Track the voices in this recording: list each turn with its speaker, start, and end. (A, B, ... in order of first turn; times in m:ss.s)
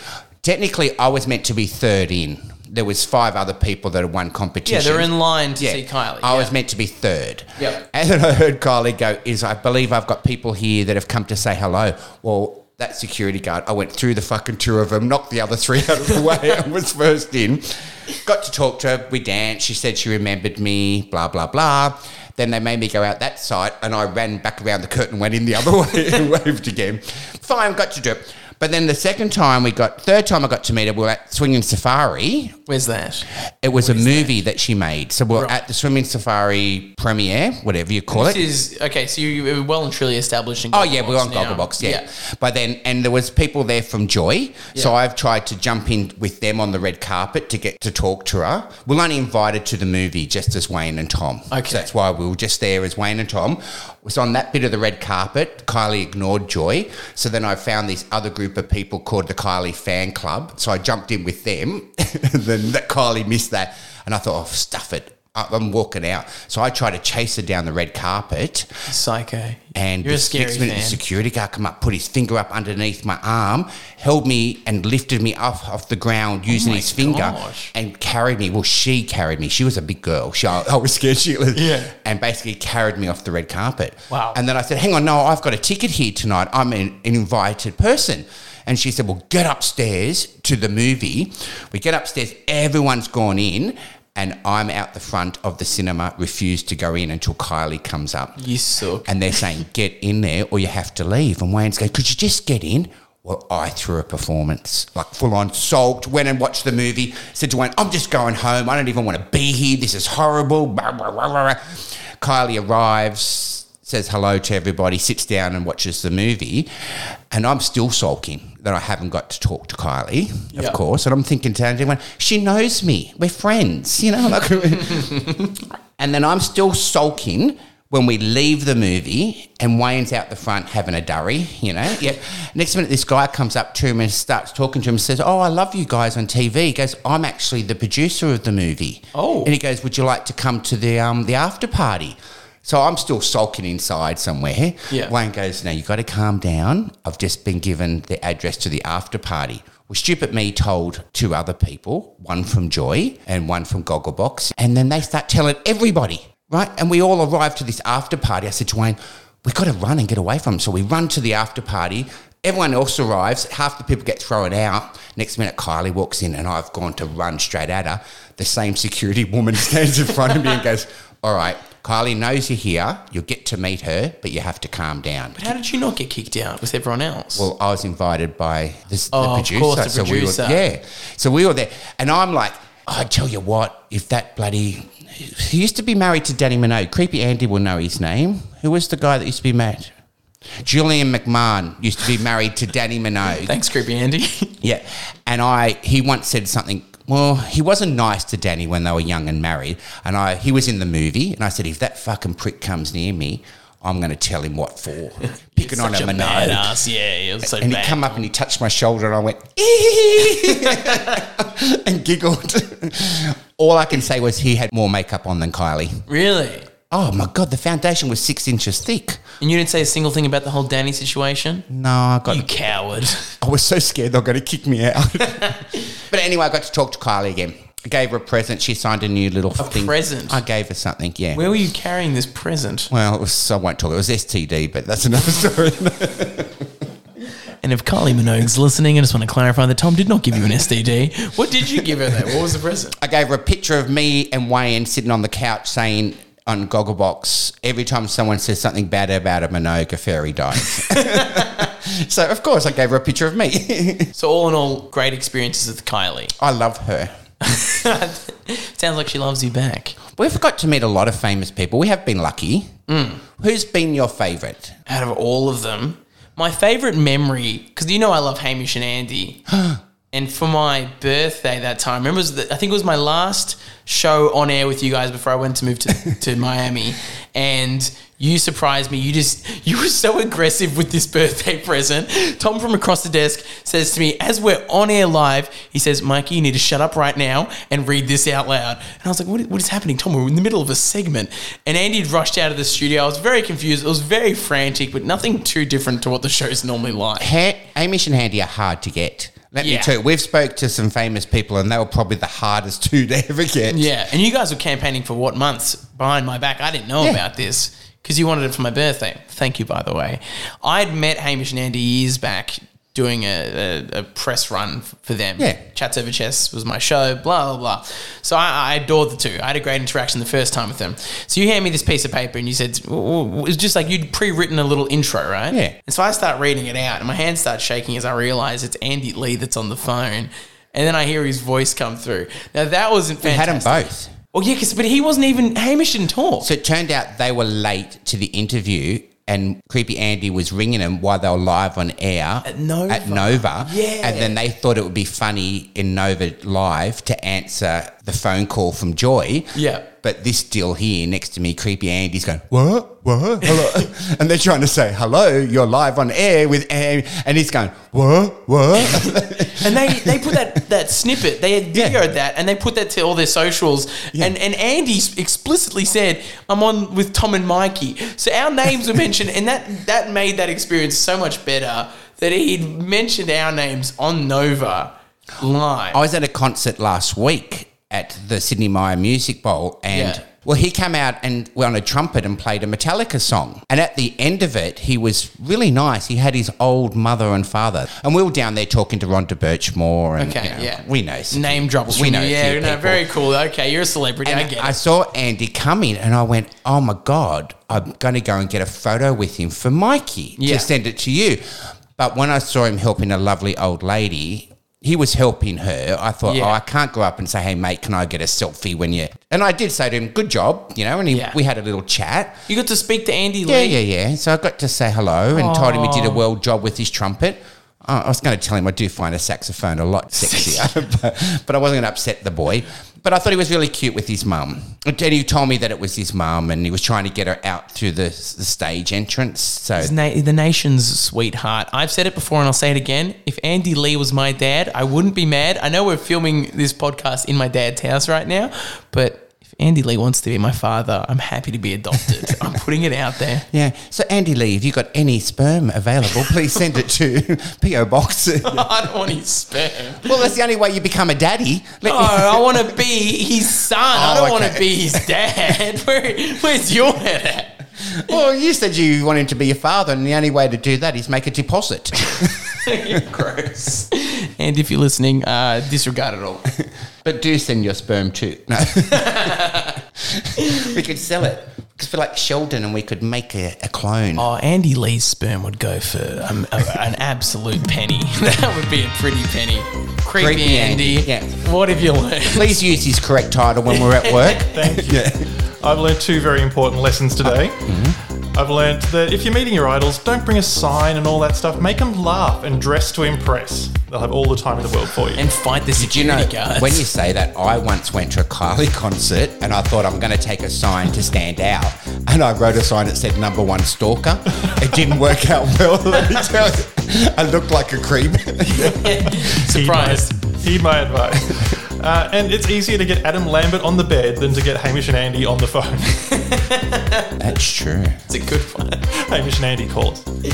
0:00.4-0:32.6 A
0:04.6-0:06.5 B
0:32.7-0:34.4 B
0:33.6-0:38.4 A
0:35.3-0:35.6 B
0:38.1-0:42.0 B
0:40.7-1:08.7 A
0:51.5-0:51.9 B
1:08.9-1:11.0 B
1:09.7-1:38.4 A
1:16.5-1:17.7 B
1:21.5-1:21.9 B
1:24.1-1:24.4 B
1:38.4-1:39.4 B
1:39.0-1:56.7 A
1:57.3-2:55.5 A
2:19.1-2:19.5 B
2:55.3-2:57.5 B
2:57.3-3:09.9 A
2:59.1-3:00.7 B
3:10.6-3:13.6 A
3:13.4-3:14.5 B
3:14.6-3:26.7 A
3:25.5-3:28.3 B
3:27.4-3:36.0 A
3:36.1-3:36.7 B
3:36.9-3:39.2 A
3:39.4-3:41.6 B
3:41.7-3:42.5 A
3:42.2-3:43.3 B
3:43.4-3:51.4 A
3:49.6-3:50.4 B
3:51.3-3:52.9 B
3:52.9-3:56.6 A
3:57.6-4:03.0 B
4:03.0-4:14.1 A
4:10.7-4:11.6 B
4:14.1-4:16.3 B
4:16.4-4:17.1 A
4:17.4-4:20.0 B
4:20.2-4:22.7 A
4:22.9-4:23.2 B
4:23.4-4:24.8 A
4:24.8-4:29.4 B
4:29.5-4:29.8 A
4:30.1-4:57.3 B
4:57.2-5:03.9 A
4:59.6-4:59.9 B
5:03.7-5:36.5 B
5:33.2-5:34.1 A
5:36.4-6:00.4 A
5:42.4-5:44.3 B
5:49.5-5:49.8 B
5:53.4-5:53.8 B
5:58.8-6:16.0 B
6:01.7-6:02.1 A
6:15.9-6:33.0 A
6:19.9-6:20.2 B
6:30.2-6:34.8 B
6:34.2-6:41.4 A
6:40.4-6:40.7 B
6:42.0-6:52.4 A
6:46.2-6:46.6 B
6:51.1-6:51.4 B
6:52.5-6:53.8 B
6:53.4-7:09.9 A
6:55.3-6:56.2 B
7:00.1-7:00.7 B
7:09.8-7:23.4 B
7:23.5-7:28.9 A
7:28.4-7:30.2 B
7:30.0-7:32.8 A
7:31.8-7:37.6 B
7:33.9-7:35.0 A
7:37.8-7:43.0 A
7:42.4-7:46.4 B
7:47.0-7:49.4 A
7:48.9-7:49.8 B
7:50.1-7:54.2 A
7:54.2-8:02.6 B
8:00.2-8:01.3 A
8:02.3-8:05.3 A
8:03.7-8:04.6 B
8:04.4-8:07.7 C
8:07.6-8:08.0 A
8:08.3-8:15.3 C
8:15.1-8:16.9 B
8:15.8-8:29.2 A
8:28.4-8:30.1 B
8:29.4-8:36.1 C
8:36.0-8:37.1 B
8:37.2-8:38.0 A
8:38.1-8:38.9 B
8:38.9-8:40.0 C